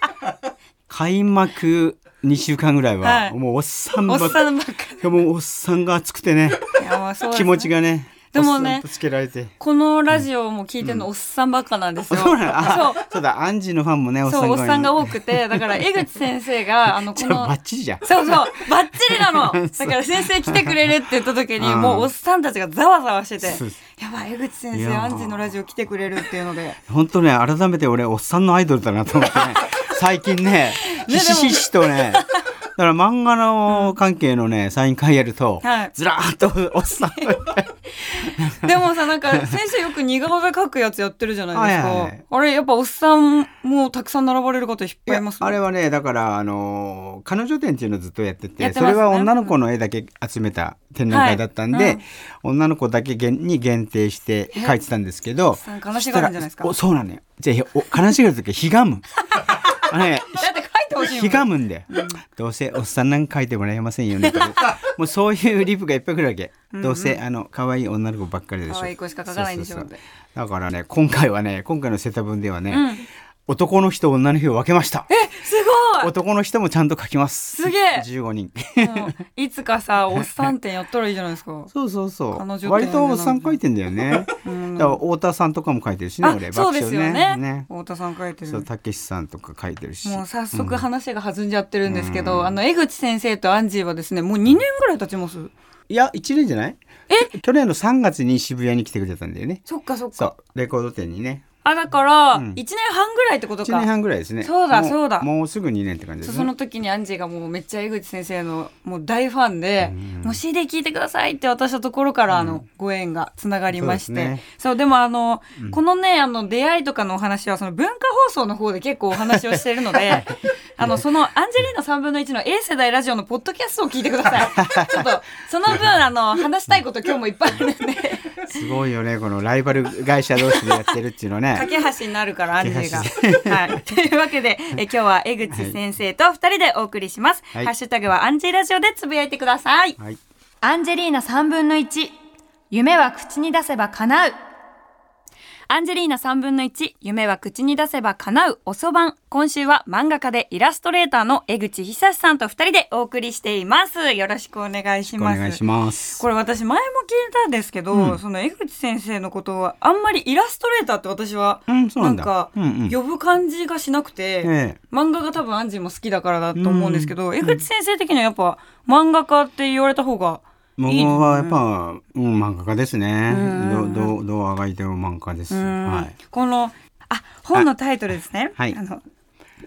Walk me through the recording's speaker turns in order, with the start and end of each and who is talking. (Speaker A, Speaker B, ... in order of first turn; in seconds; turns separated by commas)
Speaker A: 0.9-4.4, Speaker B: 3.0-3.4, Speaker B: 4.0-5.1, Speaker A: 5.0-6.7, Speaker B: 6.8-7.7, Speaker A: 7.3-9.5, Speaker B: 8.3-8.8, Speaker B: 9.6-13.0, Speaker A: 12.1-15.9, Speaker B: 14.2-26.8, Speaker A: 16.9-20.8, Speaker A: 21.6-22.1, Speaker A: 23.4-23.8, Speaker A: 24.7-25.5, Speaker A: 26.9-38.8, Speaker B: 29.6-29.9, Speaker B: 30.8-32.5, Speaker B: 33.7-33.9, Speaker B: 35.6-35.9, Speaker B: 38.0-45.6, Speaker A: 41.5-42.2, Speaker A: 45.1-75.1, Speaker B: 48.6-49.5, Speaker B: 51.1-52.0, Speaker B: 55.6-56.7, Speaker B: 59.3-62.2, Speaker B: 64.2-64.7, Speaker B: 66.7-67.2, Speaker B: 68.7-70.0, Speaker B: 72.7-73.0, Speaker B: 75.1-76.1, Speaker A: 76.0-79.1, Speaker B: 77.5-78.1, Speaker B: 78.8-81.7, Speaker A: 80.2-80.5, Speaker A: 81.7-87.7, Speaker B: 82.3-83.6, Speaker B: 84.4-85.0, Speaker B: 86.2-88.7, Speaker A: 88.5-90.8, Speaker B: 90.0-95.5, Speaker A: 91.9-92.6, Speaker A: 95.9-99.6, Speaker B: 99.7-100.3, Speaker A: 100.2-101.4, Speaker B: 101.6-103.9, Speaker A: 102.3-102.6, Speaker A: 103.6-106.5, Speaker B: 104.4-105.3, Speaker B: 106.2-128.4, Speaker A: 109.8-110.4, Speaker A: 112.3-112.6, Speaker A: 113.7-114.4, Speaker A: 119.2-120.2, Speaker A: 124.5-125.0, Speaker A: 128.4-131.7, Speaker B: 130.4-130.8, Speaker B: 131.5-140.0, Speaker A: 132.6-133.8, Speaker A: 135.5-135.8, Speaker B: 140.6-142.1, Speaker B: 142.7-144.3, Speaker B: 145.7-155.6, Speaker A: 155.2-156.2, Speaker B: 156.2-171.6, Speaker A: 157.9-158.2, Speaker A: 161.7-162.9, Speaker A: 164.4-164.8, Speaker A: 166.6-167.6, Speaker A: 170.8-176.1, Speaker B: 173.3-174.1, Speaker B: 175.5-179.0